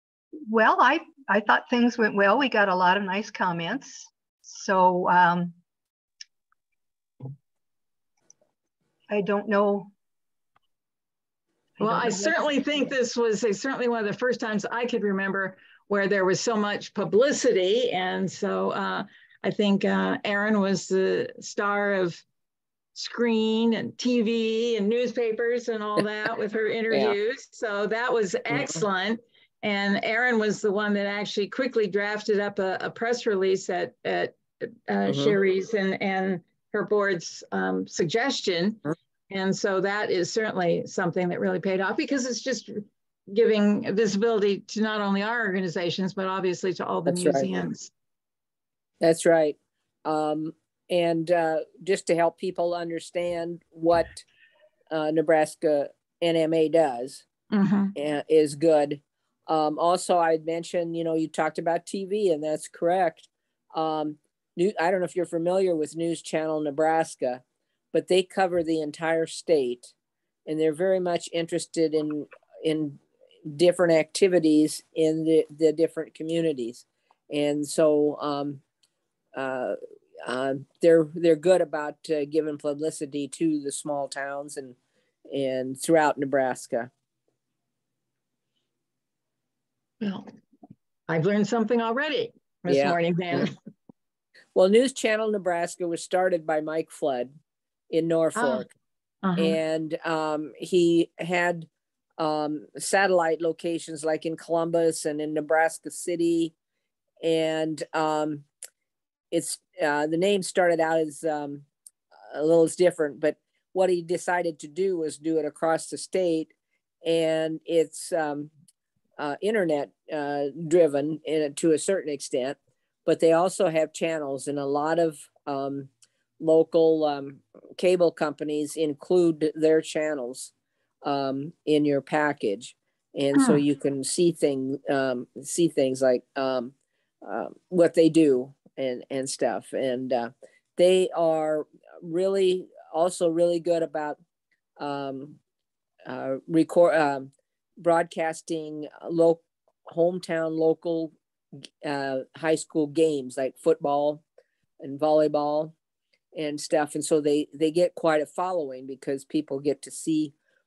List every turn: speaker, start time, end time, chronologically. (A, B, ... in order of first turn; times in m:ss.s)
0:00.5-0:05.6 A
0:09.1-0:09.9 A
0:11.8-0:12.8 A
0:11.8-0:22.2 B
0:22.9-0:47.9 B
0:35.1-0:35.3 C
0:47.1-0:47.5 C
0:49.0-0:54.2 C
0:54.9-0:57.2 C
0:57.5-0:57.9 B
0:57.9-1:09.9 C
1:10.4-1:18.6 C
1:19.3-1:24.8 C
1:25.3-1:26.9 C
1:30.0-1:30.2 B
1:31.1-1:33.6 B
1:32.7-1:33.5 C
1:34.5-1:37.4 C
1:37.9-1:38.7 C
1:38.3-1:38.7 B
1:39.2-1:39.6 B
1:39.4-1:46.5 C
1:47.2-1:48.4 C
1:49.3-1:51.6 C
1:52.3-1:56.5 C
1:57.0-1:58.5 C
1:59.2-2:10.5 C
2:11.0-2:24.2 C
2:13.3-2:13.6 B
2:24.8-2:25.4 C
2:26.0-2:31.1 C
2:31.8-2:34.2 C
2:34.8-2:35.7 C
2:36.3-2:40.3 C